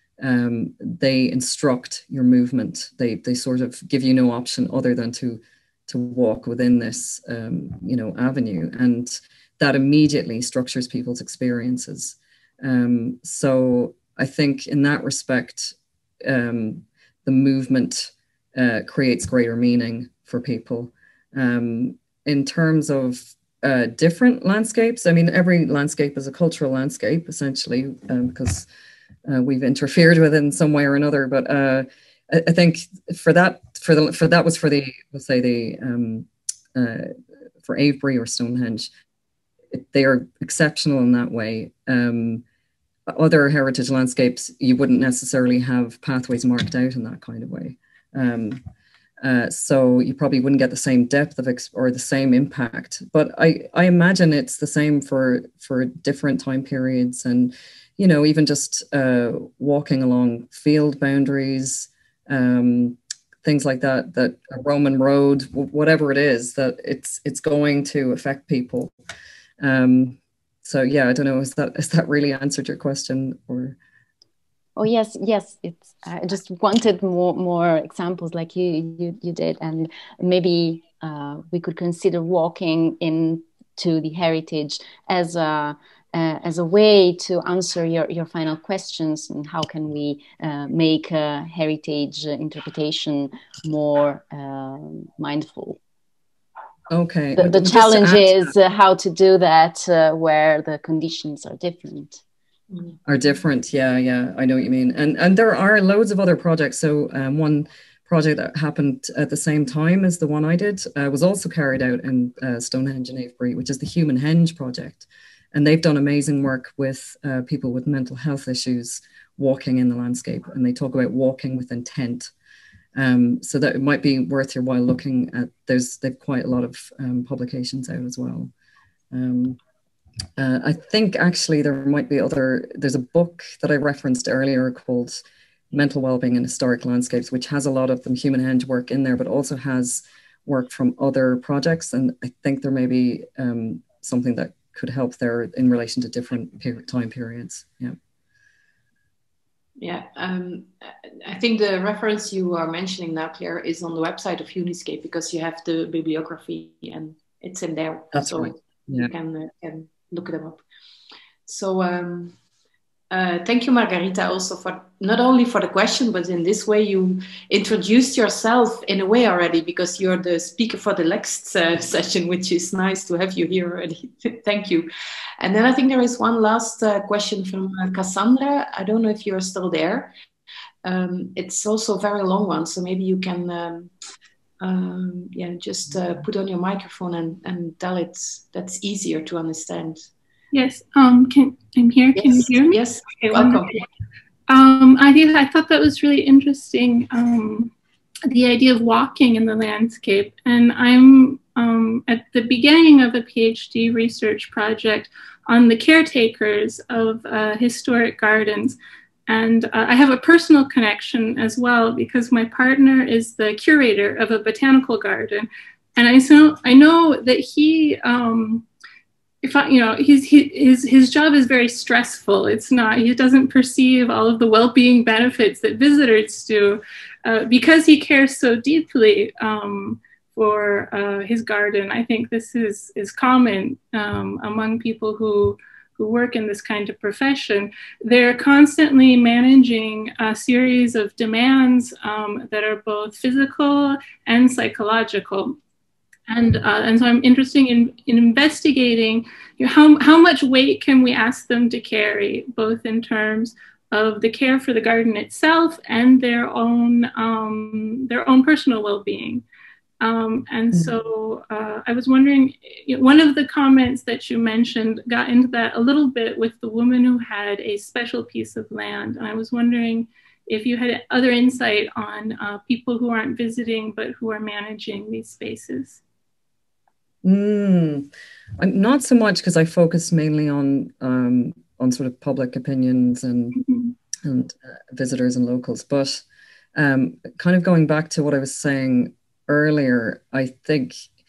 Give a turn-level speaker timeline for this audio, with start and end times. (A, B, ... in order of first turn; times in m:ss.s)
0:00.2-0:28.7 A
0:29.3-0:37.1 A
0:37.6-0:38.9 A
0:39.7-0:42.4 A
0:43.1-0:48.6 A
0:49.2-1:08.9 A
1:09.6-1:13.8 A
1:14.8-1:35.8 B
1:36.9-1:38.5 A
1:37.3-1:42.2 B
1:43.0-2:02.3 A
2:03.0-2:08.5 A
2:09.1-2:09.6 A
2:10.4-2:28.0 A
2:29.8-2:40.6 C
2:38.1-2:39.1 A
2:41.5-2:42.3 C
2:43.1-2:54.9 C
2:55.4-3:00.1 C
3:00.8-3:03.9 C
3:04.6-3:10.1 C
3:10.5-3:13.8 D
3:12.2-3:13.8 C
3:14.5-3:17.7 D
3:18.3-3:28.8 D
3:29.3-3:38.6 D
3:39.4-4:05.6 D
4:06.3-4:19.4 D
4:20.0-4:36.0 D
4:37.2-4:43.6 A
4:43.5-4:43.9 D
4:44.2-4:46.2 A
4:46.8-4:51.1 A